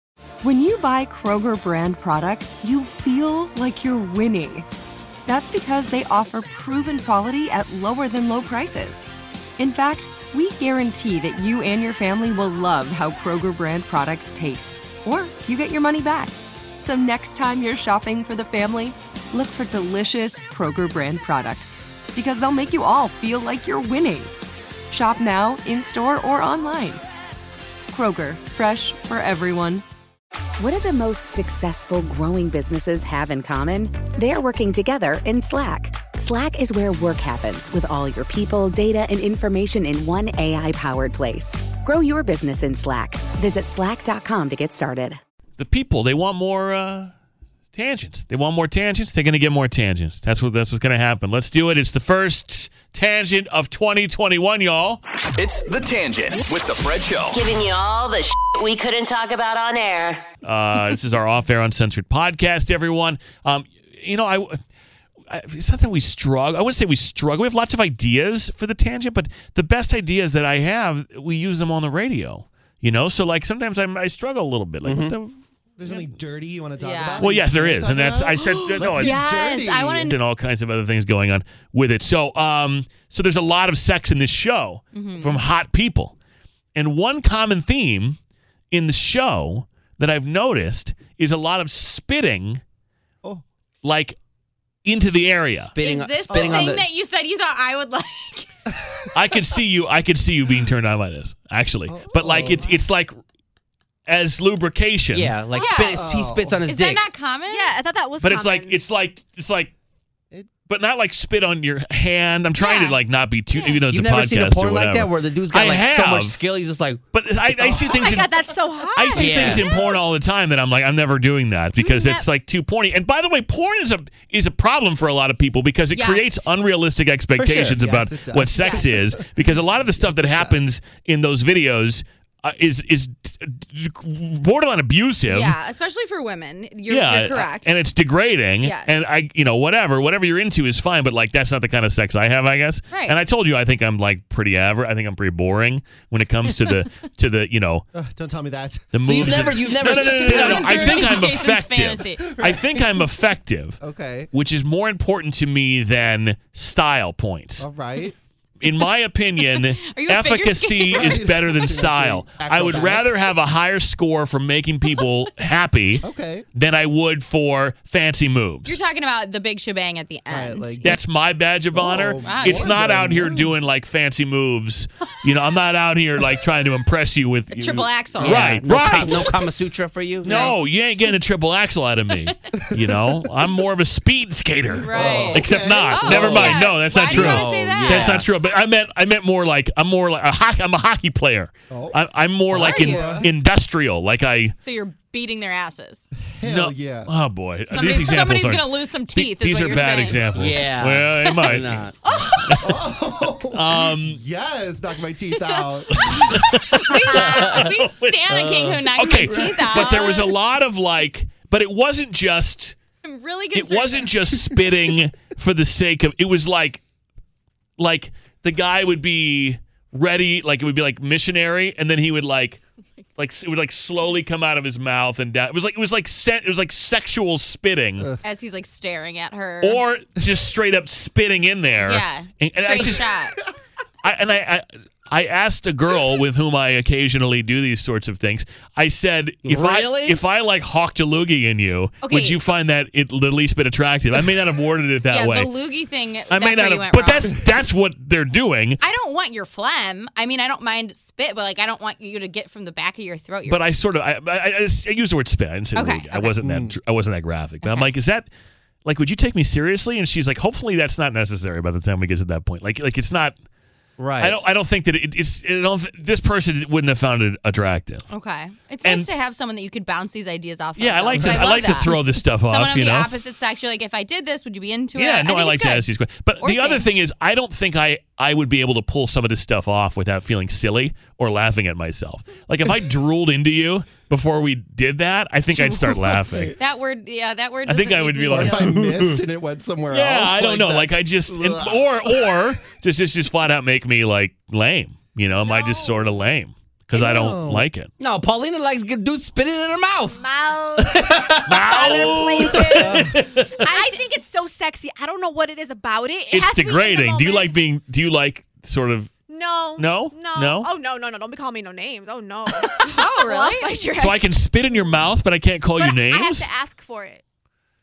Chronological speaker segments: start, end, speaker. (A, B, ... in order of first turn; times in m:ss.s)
0:00.4-0:04.7 A
0:05.2-0:09.0 A
0:09.6-0:24.3 A
0:24.9-0:27.0 A
0:27.9-0:29.8 A
0:30.6-0:45.2 B
0:45.6-0:47.1 C
0:47.7-0:55.0 C
0:55.4-0:57.4 D
0:57.3-1:00.2 E
1:00.4-1:04.6 C
1:05.3-1:15.4 C
1:14.8-1:15.1 F
1:15.8-1:20.1 G
1:16.8-1:17.3 H
1:17.2-1:19.2 C
1:18.9-1:20.1 H
1:19.9-1:26.1 C
1:24.9-1:25.4 H
1:26.7-1:28.2 C
1:28.7-1:32.6 C
1:33.8-1:34.2 C
1:34.8-1:35.7 C
1:35.6-1:36.9 F
1:35.8-1:38.5 H
1:36.3-1:36.8 G
1:39.1-1:43.2 C
1:41.9-1:42.8 G
1:44.0-1:45.3 C
1:45.1-1:47.1 F
1:45.5-1:46.0 H
1:45.8-1:46.6 G
1:46.6-1:47.8 H
1:47.5-1:48.8 I
1:48.2-1:49.7 C
1:50.6-1:56.4 C
1:52.6-1:53.0 H
1:53.5-1:53.8 H
1:53.9-1:57.0 F
1:57.1-2:15.5 C
1:57.6-1:57.9 G
1:57.9-2:00.0 I
1:59.1-1:59.6 F
2:01.8-2:02.2 I
2:05.9-2:06.4 H
2:07.4-2:07.8 F
2:07.7-2:10.5 G
2:08.6-2:08.9 H
2:15.3-2:17.8 H
2:16.9-2:27.8 C
2:18.6-2:19.1 H
2:22.9-2:23.2 H
2:27.9-2:29.5 G
2:28.9-2:33.8 C
2:29.0-2:31.1 F
2:30.2-2:32.4 H
2:30.5-2:31.5 G
2:32.2-2:33.1 G
2:33.8-2:34.3 G
2:34.3-2:37.7 C
2:37.6-2:38.2 G
2:38.6-2:48.8 C
2:39.5-2:41.6 H
2:40.9-2:43.3 G
2:46.0-2:46.4 G
2:48.6-2:51.0 H
2:50.3-2:51.0 G
2:50.8-2:59.5 C
2:51.7-2:53.5 G
2:52.2-2:53.0 H
2:57.5-2:59.3 H
2:58.2-3:00.5 F
3:00.2-3:00.6 H
3:00.2-3:14.5 C
3:02.8-3:03.2 G
3:04.8-3:06.6 G
3:04.8-3:08.2 H
3:07.0-3:08.2 F
3:11.7-3:13.3 G
3:12.5-3:13.2 H
3:14.6-3:16.1 H
3:16.3-3:17.1 G
3:16.4-3:21.8 C
3:17.7-3:20.3 H
3:20.3-3:21.9 F
3:21.3-3:22.7 H
3:22.4-3:22.8 C
3:22.6-3:26.2 G
3:23.5-3:24.2 C
3:25.4-3:26.0 H
3:25.9-3:32.8 C
3:26.7-3:30.3 H
3:27.2-3:27.6 F
3:29.5-3:29.9 G
3:33.0-3:34.1 H
3:33.5-3:36.8 C
3:37.8-3:42.6 C
3:43.2-3:48.1 C
3:48.2-3:49.8 H
3:49.6-3:53.1 C
3:51.8-3:53.4 H
3:54.0-4:05.5 C
3:59.4-4:00.2 F
4:02.0-4:02.4 H
4:05.1-4:07.4 H
4:06.3-4:08.8 C
4:08.8-4:13.6 H
4:13.5-4:18.3 C
4:15.7-4:16.3 H
4:16.4-4:16.8 G
4:17.6-4:17.9 H
4:18.8-4:23.4 C
4:24.0-4:24.4 F
4:24.2-4:28.1 C
4:28.1-4:35.9 H
4:28.8-4:29.1 C
4:30.8-4:33.1 C
4:31.1-4:31.6 F
4:34.9-4:46.6 C
4:36.4-4:36.8 H
4:45.6-4:46.6 G
4:46.6-4:48.8 H
4:47.6-4:49.2 C
4:48.2-4:52.4 G
4:49.9-4:57.9 C
4:55.4-4:55.9 I
4:56.9-4:57.6 G
4:58.0-5:00.2 F
5:00.1-5:03.0 I
5:00.8-5:03.2 F
5:01.5-5:03.7 C
5:02.7-5:03.2 G
5:03.7-5:07.5 I
5:06.3-5:09.1 C
5:09.3-5:14.9 I
5:09.8-5:10.7 C
5:12.9-5:13.8 H
5:14.0-5:16.5 C
5:15.8-5:17.2 I